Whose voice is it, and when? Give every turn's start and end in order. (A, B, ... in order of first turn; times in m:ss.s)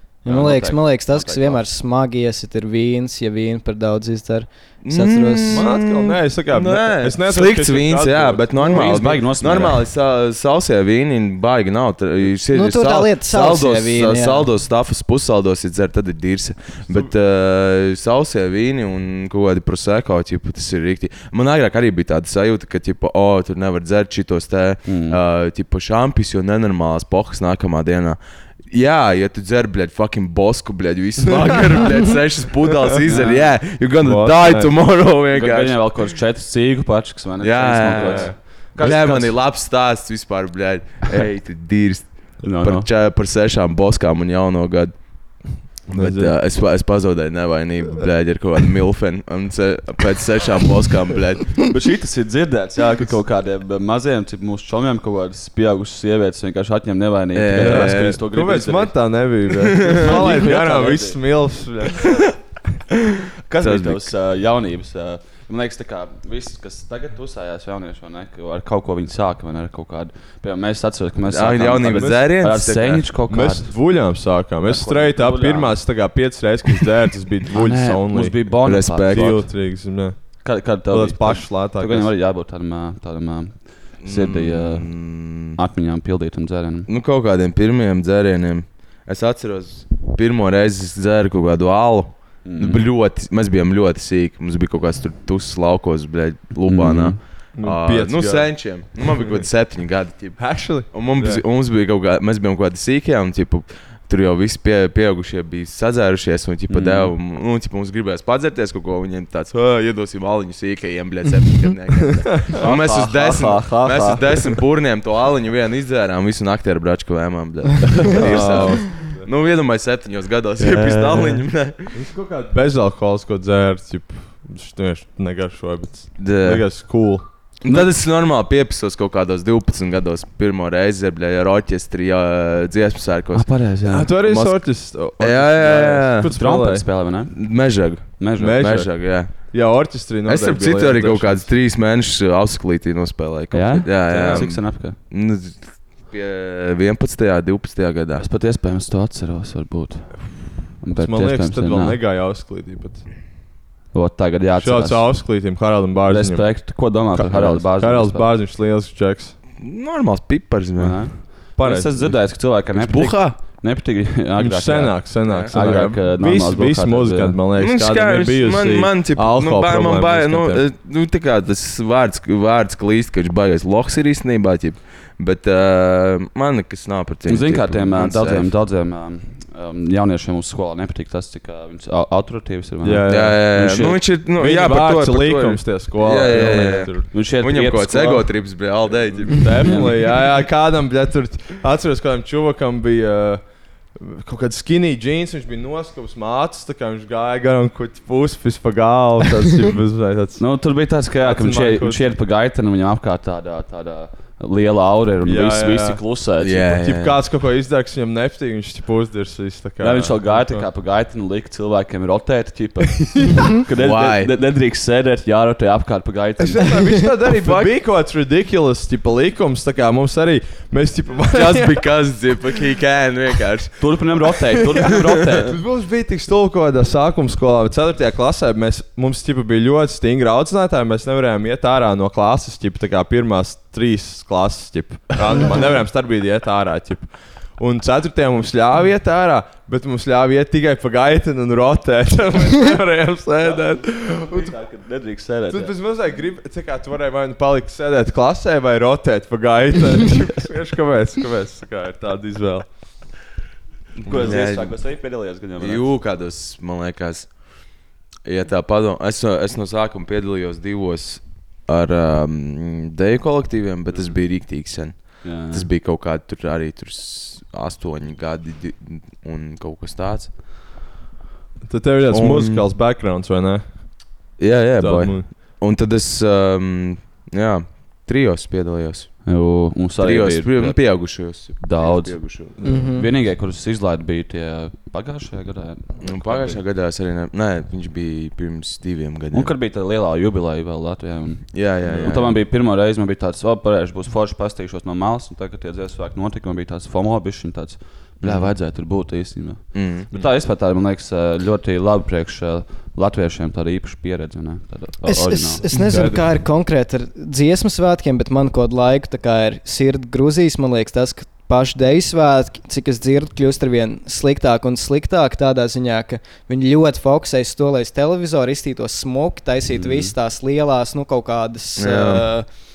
0:00.2-0:05.7 A
0:00.2-0:01.6 B
0:04.8-0:36.0 C
0:05.5-0:08.8 D
0:08.6-0:09.8 B
0:12.5-0:14.5 A
0:24.8-0:25.2 B
0:33.1-0:33.7 B
0:34.0-0:34.7 D
0:35.3-0:39.3 B
0:37.4-0:51.6 C
0:37.9-0:39.0 D
0:42.4-0:42.9 B
0:45.9-0:46.3 D
0:51.7-0:59.3 B
0:57.3-0:58.2 C
0:57.6-1:02.2 D
0:59.8-1:00.3 C
0:59.8-1:01.2 B
1:03.5-1:13.7 B
1:03.6-1:04.1 C
1:11.3-1:13.1 C
1:11.8-1:12.2 D
1:13.3-1:18.4 D
1:14.6-1:15.8 B
1:17.5-1:19.4 B
1:18.6-1:19.4 C
1:19.1-1:22.1 D
1:20.4-1:26.9 B
1:24.0-1:25.6 C
1:26.9-2:02.0 C
1:32.4-1:32.8 B
1:36.7-1:37.2 B
1:37.6-1:39.2 D
1:40.4-1:41.4 D
1:46.7-1:47.1 B
1:52.6-1:54.6 B
1:58.1-1:59.3 D
2:00.6-2:01.4 B
2:01.9-2:07.2 D
2:06.2-2:06.6 C
2:07.6-2:13.6 C
2:13.3-2:14.1 B
2:13.8-2:16.8 D
2:14.1-2:16.3 C
2:16.3-2:18.7 B
2:17.3-2:19.5 C
2:18.4-2:21.5 D
2:20.2-2:28.3 C
2:23.5-2:25.0 B
2:28.2-2:32.0 B
2:30.9-2:33.0 D
2:33.9-2:35.1 B
2:34.6-2:39.4 D
2:36.1-2:38.3 B
2:39.6-2:41.0 C
2:40.8-2:47.4 B
2:41.6-2:42.2 D
2:42.7-2:43.4 C
2:44.4-2:50.6 D
2:45.3-2:45.8 C
2:47.6-2:58.5 C
2:57.3-3:04.0 B
3:02.8-3:03.5 D
3:03.1-3:09.7 C
3:04.4-3:07.1 D
3:07.1-3:08.2 B
3:09.2-3:13.4 D
3:09.6-3:10.2 B
3:13.9-3:20.4 D
3:20.4-3:26.8 B
3:21.2-3:22.1 D
3:25.2-3:26.0 D
3:26.4-3:27.2 C
3:26.8-3:30.6 D
3:29.8-3:37.1 B
3:33.0-3:33.4 D
3:33.8-3:34.3 C
3:36.4-3:41.8 D
3:37.2-3:37.7 C
3:41.3-3:43.9 C
3:43.8-3:45.6 B
3:45.4-4:04.5 D
4:03.4-4:05.7 B
4:05.5-4:12.7 D
4:14.0-4:15.8 B
4:14.0-4:14.8 C
4:15.6-4:17.4 C
4:18.2-4:30.3 C
4:25.2-4:25.7 B
4:31.6-4:33.9 D
4:32.1-4:32.6 C
4:34.4-4:39.2 C
4:34.8-4:35.3 D
4:39.2-4:46.6 B
4:40.0-4:42.5 C
4:42.6-4:43.1 A
4:46.0-4:49.5 C
4:49.3-5:05.6 B
4:51.5-4:52.4 C
4:58.2-4:58.5 C
4:59.7-5:00.2 C
5:05.0-5:22.4 A
5:05.9-5:06.2 D
5:19.7-5:20.1 B
5:21.8-5:22.2 C